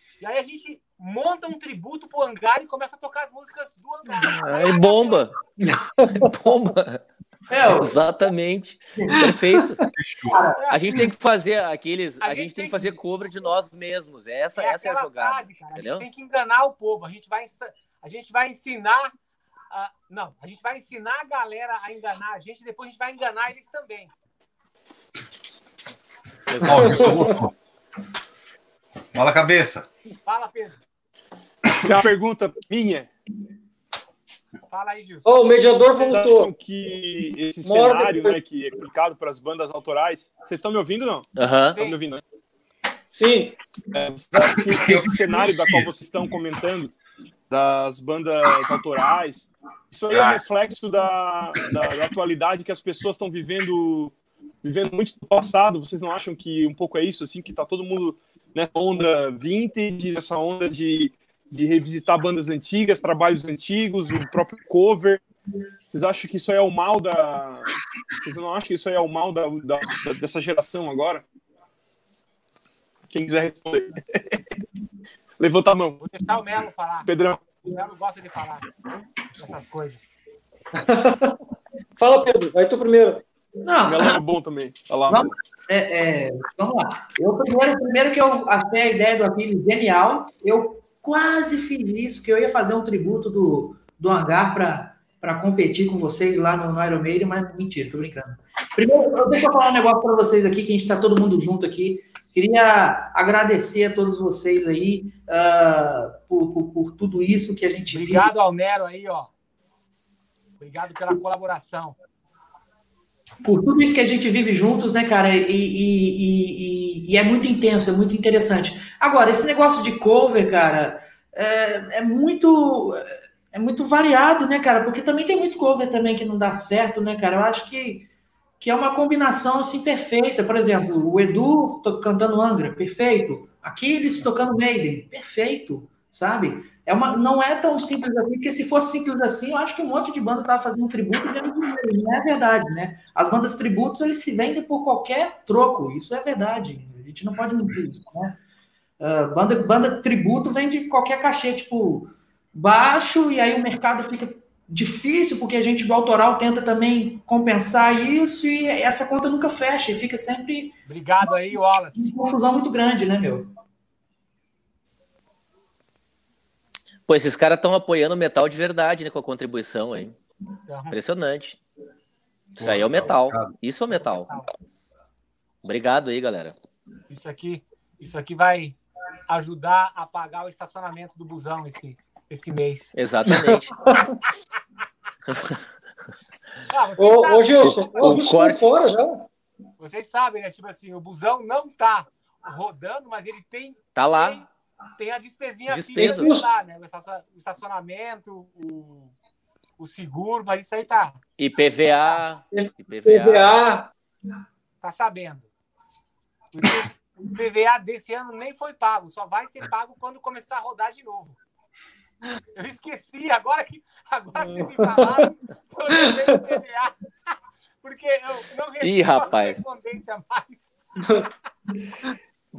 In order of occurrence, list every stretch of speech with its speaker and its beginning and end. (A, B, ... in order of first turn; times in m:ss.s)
0:00.2-0:05.3 A
0:04.2-0:05.3 B
0:05.6-0:06.3 C
0:06.1-0:07.0 B
0:07.5-0:08.0 D
0:07.6-0:09.8 B
0:09.0-0:09.3 D
0:10.0-0:10.4 E
0:10.3-0:11.1 D
0:10.6-0:10.9 A
0:10.7-0:16.0 B
0:12.2-0:13.0 A
0:14.6-0:19.1 A
0:19.7-0:24.1 A
0:26.5-0:27.2 B
0:26.6-0:27.5 E
0:26.7-0:27.1 C
0:29.1-0:29.9 E
0:30.3-0:30.8 A
0:31.7-0:33.1 F
0:34.7-0:35.3 A
0:35.3-0:36.5 C
0:36.0-0:42.2 F
0:37.6-0:38.4 C
0:41.4-0:41.8 B
0:43.1-0:43.6 C
0:43.9-0:47.0 F
0:44.7-0:45.9 E
0:47.5-1:05.2 F
0:50.1-0:50.4 E
1:05.9-1:11.3 F
1:13.1-1:14.4 F
1:15.4-1:16.2 F
1:16.0-1:18.6 A
1:17.0-1:17.6 F
1:19.4-1:20.2 A
1:20.8-1:21.4 C
1:22.0-1:23.2 C
1:23.6-1:24.2 D
1:23.8-1:25.3 F
1:25.1-1:48.3 D
1:47.9-1:49.3 A
1:50.6-1:52.0 A
1:53.4-2:08.1 D
2:08.6-2:28.4 D
2:29.0-2:40.8 D
2:40.9-2:42.1 A
2:42.0-2:43.5 D
2:47.1-2:50.2 B
2:50.7-2:51.0 A
2:50.9-2:51.6 B
2:52.6-2:54.3 B
2:52.6-2:53.5 E
2:53.9-2:54.5 A
2:55.6-2:56.6 B
2:57.1-2:58.8 A
2:59.3-3:03.0 A
3:03.0-3:03.8 B
3:03.5-3:04.1 C
3:05.3-3:05.6 B
3:06.7-3:08.2 A
3:07.0-3:09.3 C
3:07.6-3:08.6 B
3:09.8-3:19.1 A
3:14.0-3:14.4 B
3:15.7-3:16.4 B
3:16.0-3:16.5 C
3:19.8-3:21.2 A
3:21.4-3:23.6 B
3:22.5-3:23.9 C
3:24.8-3:25.5 A
3:26.5-3:31.4 A
3:32.6-3:36.9 A
3:34.4-3:35.3 C
3:36.0-3:36.6 C
3:37.8-3:40.8 A
3:38.8-3:39.6 B